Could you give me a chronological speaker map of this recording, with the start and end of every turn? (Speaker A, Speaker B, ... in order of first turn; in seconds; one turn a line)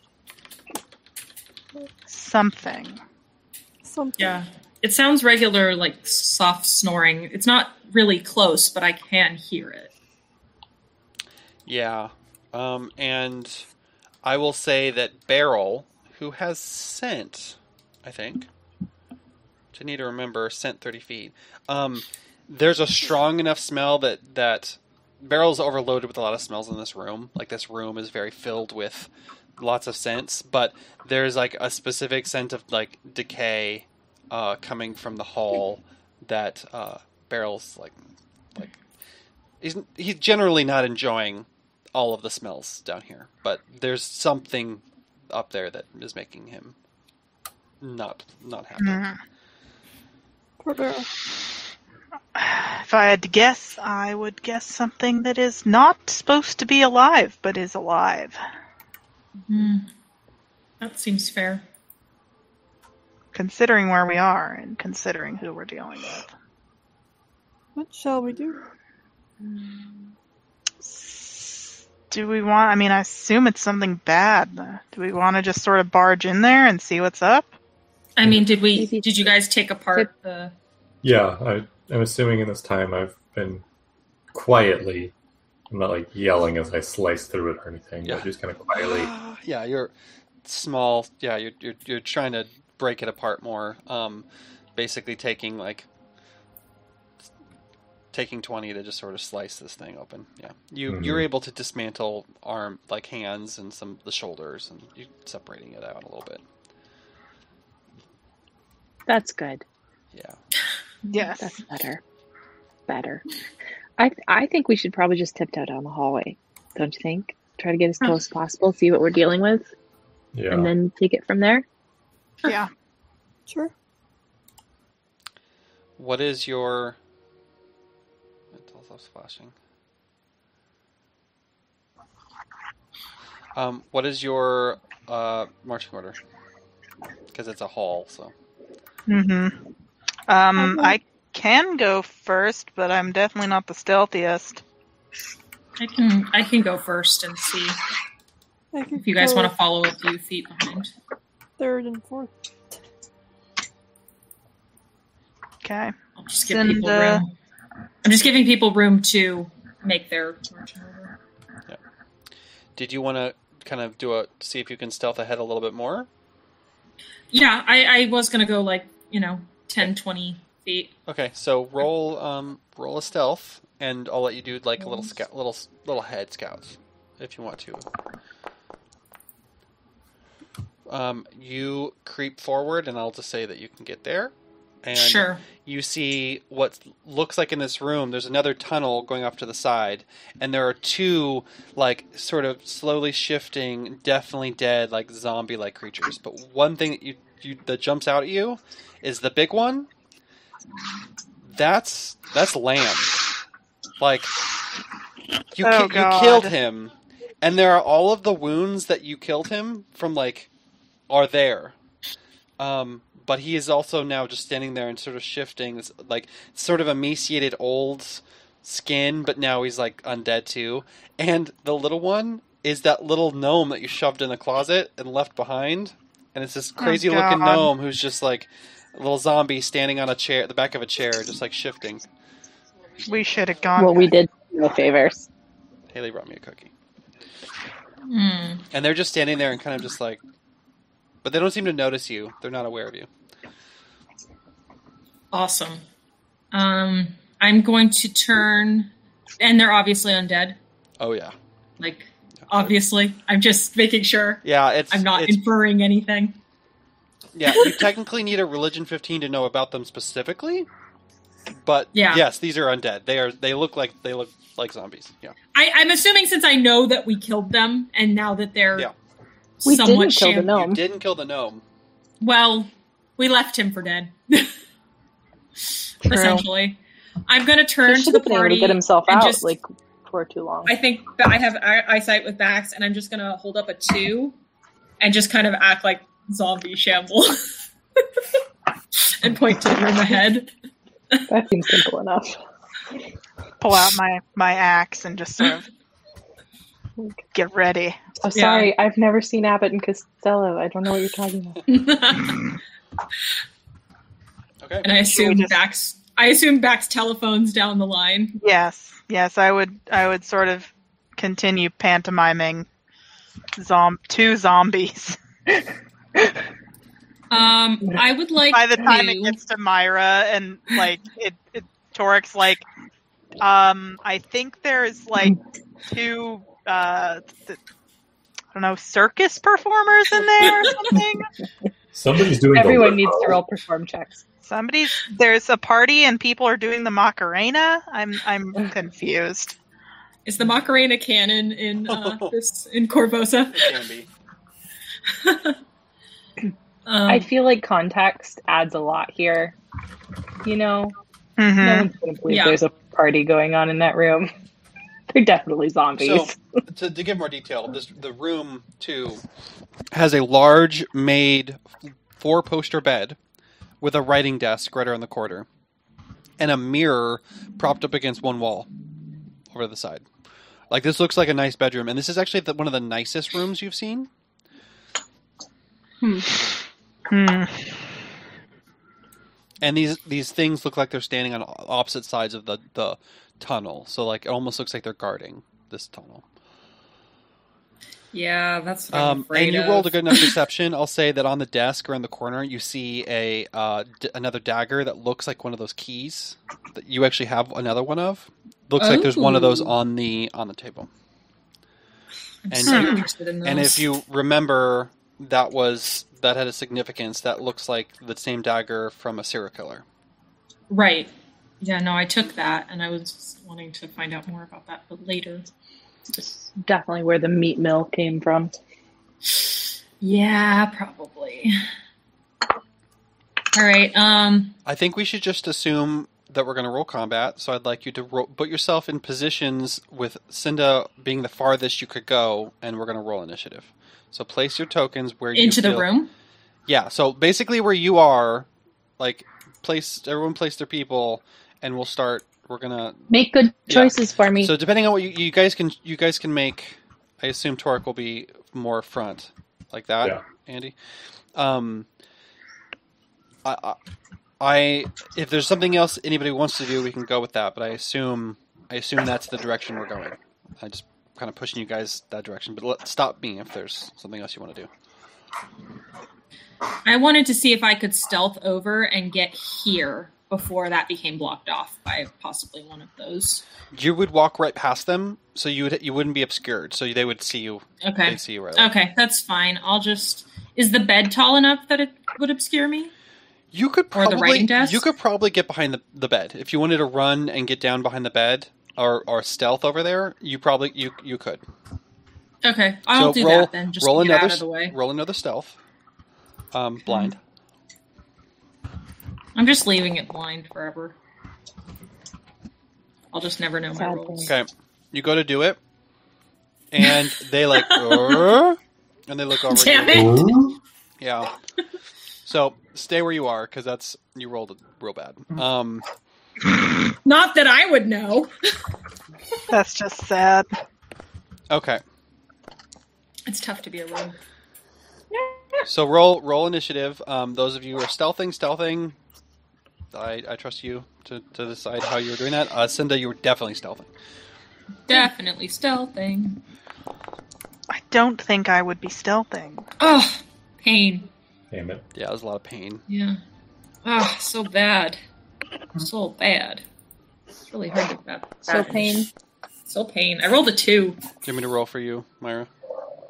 Speaker A: 2.1-3.0
Speaker B: 3.8-4.4
Speaker C: 4.2-9.9
Speaker D: 11.7-13.7
Speaker D: 14.2-18.5
Speaker D: 19.7-38.0
Speaker D: 39.6-46.7
Speaker D: 47.8-49.1
Speaker A: 48.8-49.2
Speaker B: 50.6-51.1
Speaker A: 52.3-58.4
Speaker C: 59.5-59.9
Speaker C: 60.8-61.6
Speaker A: 63.3-66.3
Speaker B: 67.8-68.6
Speaker A: 70.8-77.5
Speaker C: 78.2-80.5
Speaker E: 78.7-79.3
Speaker F: 81.0-83.6
Speaker F: 84.3-85.1
Speaker F: 85.7-89.1
Speaker D: 88.0-89.9
Speaker D: 90.4-95.9
Speaker D: 98.1-106.4
Speaker F: 100.9-101.2
Speaker E: 109.1-109.6
Speaker D: 110.1-110.4
Speaker A: 111.1-111.6
Speaker E: 111.3-112.0
Speaker E: 112.9-113.2
Speaker E: 114.0-119.7
Speaker F: 120.3-120.7
Speaker E: 120.5-121.6
Speaker A: 122.4-122.7
Speaker D: 126.0-127.0
Speaker D: 128.5-129.5
Speaker D: 133.5-136.2
Speaker D: 137.3-138.3
Speaker A: 139.1-139.6
Speaker A: 140.3-144.6
Speaker B: 140.6-140.9
Speaker C: 145.8-147.8
Speaker B: 148.7-149.5
Speaker C: 149.0-150.9
Speaker B: 151.6-152.3
Speaker A: 155.6-155.9
Speaker C: 156.2-157.3
Speaker A: 156.5-157.2
Speaker C: 158.0-161.1
Speaker D: 162.8-166.1
Speaker C: 167.3-170.9
Speaker D: 171.1-177.8
Speaker D: 180.9-199.9
Speaker C: 184.9-185.4
Speaker D: 201.4-203.1
Speaker D: 204.0-204.3
Speaker D: 205.5-210.5
Speaker A: 205.6-206.5
Speaker D: 211.1-211.7
Speaker D: 212.6-232.0
Speaker A: 226.8-227.7
Speaker C: 233.0-233.5
Speaker A: 233.1-234.1
Speaker E: 233.8-235.3
Speaker D: 235.9-236.7
Speaker C: 238.1-238.6
Speaker D: 238.7-240.2
Speaker D: 241.2-243.1
Speaker C: 245.3-245.8
Speaker C: 246.5-250.6
Speaker D: 251.0-251.3
Speaker C: 251.8-256.4
Speaker D: 252.4-252.7
Speaker D: 254.4-255.4
Speaker D: 257.3-260.7
Speaker C: 257.5-257.8
Speaker D: 261.5-265.3
Speaker C: 261.9-262.2
Speaker C: 265.5-268.9
Speaker C: 269.6-270.5
Speaker E: 269.6-270.8
Speaker D: 270.5-271.6
Speaker C: 272.2-274.5
Speaker C: 276.0-279.5
Speaker A: 276.0-276.4
Speaker E: 277.8-280.7
Speaker C: 280.6-284.3
Speaker C: 285.0-287.5
Speaker C: 289.1-290.5
Speaker E: 291.3-292.4
Speaker A: 293.6-295.7
Speaker A: 297.3-298.0
Speaker E: 298.2-301.6
Speaker C: 298.3-298.7
Speaker C: 301.7-302.6
Speaker D: 304.6-304.9
Speaker C: 304.8-308.4
Speaker A: 305.1-305.6
Speaker A: 308.4-312.7
Speaker A: 313.6-315.2
Speaker C: 317.3-319.4
Speaker A: 318.5-322.6
Speaker A: 323.4-325.4
Speaker A: 325.9-327.6
Speaker A: 328.5-331.3
Speaker C: 330.4-330.7
Speaker F: 331.9-333.4
Speaker E: 332.5-334.2
Speaker A: 334.4-339.6
Speaker C: 340.2-343.8
Speaker D: 341.9-342.3
Speaker D: 343.5-344.1
Speaker C: 345.1-345.6
Speaker C: 346.9-347.3
Speaker E: 347.1-349.6
Speaker E: 350.4-350.9
Speaker A: 351.4-351.9
Speaker E: 351.6-354.3
Speaker C: 352.3-352.6
Speaker E: 355.1-356.4
Speaker D: 356.0-359.2
Speaker D: 359.9-363.2
Speaker D: 363.8-365.5
Speaker D: 366.4-368.7
Speaker D: 369.5-370.1
Speaker D: 370.7-374.1
Speaker E: 376.0-376.3
Speaker A: 377.1-377.8
Speaker D: 379.6-386.2
Speaker C: 388.1-390.3
Speaker D: 388.9-400.9
Speaker C: 398.8-399.7
Speaker C: 402.5-403.9
Speaker D: 402.5-409.8
Speaker A: 402.7-403.0
Speaker C: 410.7-415.5
Speaker E: 416.1-418.5
Speaker C: 419.3-421.5
Speaker C: 423.5-424.5
Speaker D: 424.6-435.9
Speaker C: 435.4-436.1
Speaker D: 436.7-438.5
Speaker D: 439.0-443.1
Speaker E: 443.1-444.5
Speaker D: 443.7-450.7
Speaker D: 451.3-451.9
Speaker D: 453.4-453.8
Speaker D: 454.4-464.7
Speaker C: 466.8-473.4
Speaker D: 473.7-478.7
Speaker C: 477.8-482.9
Speaker D: 483.5-491.4
Speaker C: 483.9-484.9
Speaker C: 492.4-494.7
Speaker D: 492.9-495.6
Speaker D: 496.5-497.2
Speaker C: 496.9-497.1
Speaker C: 499.3-500.9
Speaker C: 503.1-504.3
Speaker E: 503.7-504.3
Speaker D: 504.2-505.6
Speaker D: 506.7-510.1
Speaker C: 507.6-508.3
Speaker C: 509.5-510.4
Speaker F: 509.9-510.6
Speaker D: 511.0-511.3
Speaker D: 512.2-515.8
Speaker C: 517.0-518.3
Speaker A: 519.5-520.5
Speaker D: 521.5-521.8
Speaker C: 523.2-524.2
Speaker E: 525.1-525.6
Speaker D: 525.6-529.0
Speaker D: 529.9-533.9
Speaker C: 534.9-536.4
Speaker A: 537.7-539.6
Speaker C: 539.8-541.1
Speaker F: 541.5-541.8
Speaker D: 541.9-542.8
Speaker C: 542.9-543.2
Speaker C: 543.8-545.0
Speaker C: 545.8-546.6
Speaker C: 547.5-549.1
Speaker E: 548.5-549.1
Speaker C: 549.7-551.0
Speaker D: 551.2-552.5